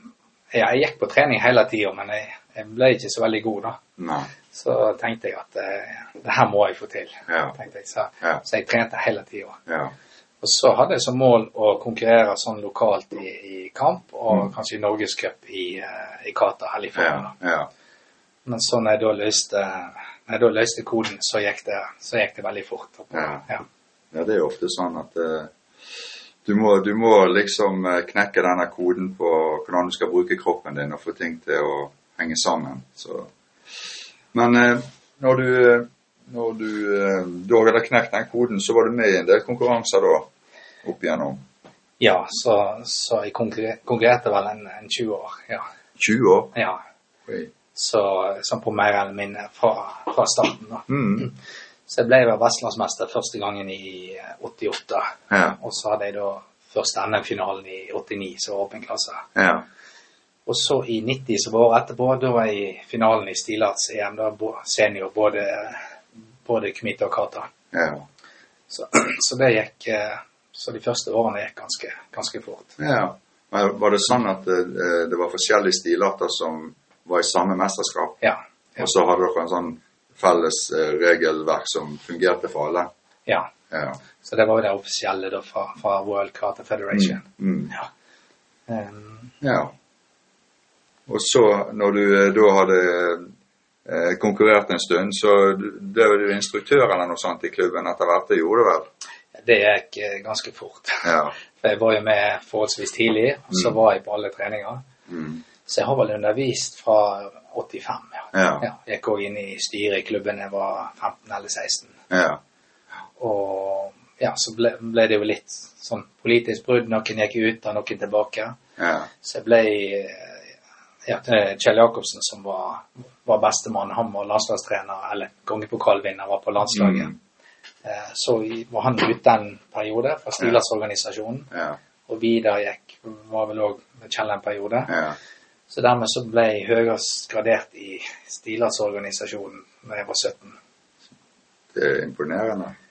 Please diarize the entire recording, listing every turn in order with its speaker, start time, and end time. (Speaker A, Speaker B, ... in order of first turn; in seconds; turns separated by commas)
Speaker A: 0.5-3.8, Speaker B: 4.0-4.3, Speaker A: 4.5-9.6, Speaker B: 7.3-7.5, Speaker B: 9.7-9.9, Speaker A: 10.4-17.3, Speaker B: 17.0-17.7, Speaker A: 18.5-23.6, Speaker B: 23.1-23.4, Speaker B: 24.1-40.3, Speaker B: 40.8-41.4, Speaker A: 42.0-45.6, Speaker B: 46.0-46.5, Speaker A: 46.5-46.8, Speaker B: 47.3-47.5, Speaker A: 47.8-51.4, Speaker B: 50.9-51.3, Speaker A: 51.9-59.3, Speaker B: 55.3-55.6, Speaker B: 59.4-59.6, Speaker A: 60.5-65.9, Speaker A: 66.5-67.5, Speaker B: 67.7-68.1, Speaker A: 68.7-72.7, Speaker B: 72.8-78.2, Speaker A: 78.2-78.9, Speaker B: 78.8-82.9, Speaker A: 83.3-83.5, Speaker B: 83.7-84.0, Speaker A: 84.2-87.9, Speaker B: 86.9-87.7, Speaker A: 88.7-89.3, Speaker B: 89.4-89.7, Speaker B: 91.1-93.3, Speaker B: 93.8-98.9, Speaker A: 99.4-104.8, Speaker B: 101.0-101.3, Speaker B: 105.1-105.4, Speaker A: 105.7-112.0, Speaker B: 108.3-108.6, Speaker B: 112.1-112.4, Speaker A: 113.2-118.6, Speaker B: 118.8-119.1, Speaker A: 119.2-120.4, Speaker A: 121.1-127.1, Speaker B: 126.7-127.2, Speaker A: 127.8-131.5, Speaker B: 131.5-131.8, Speaker A: 132.1-134.9, Speaker B: 134.9-135.2, Speaker A: 135.7-140.6, Speaker B: 141.7-142.8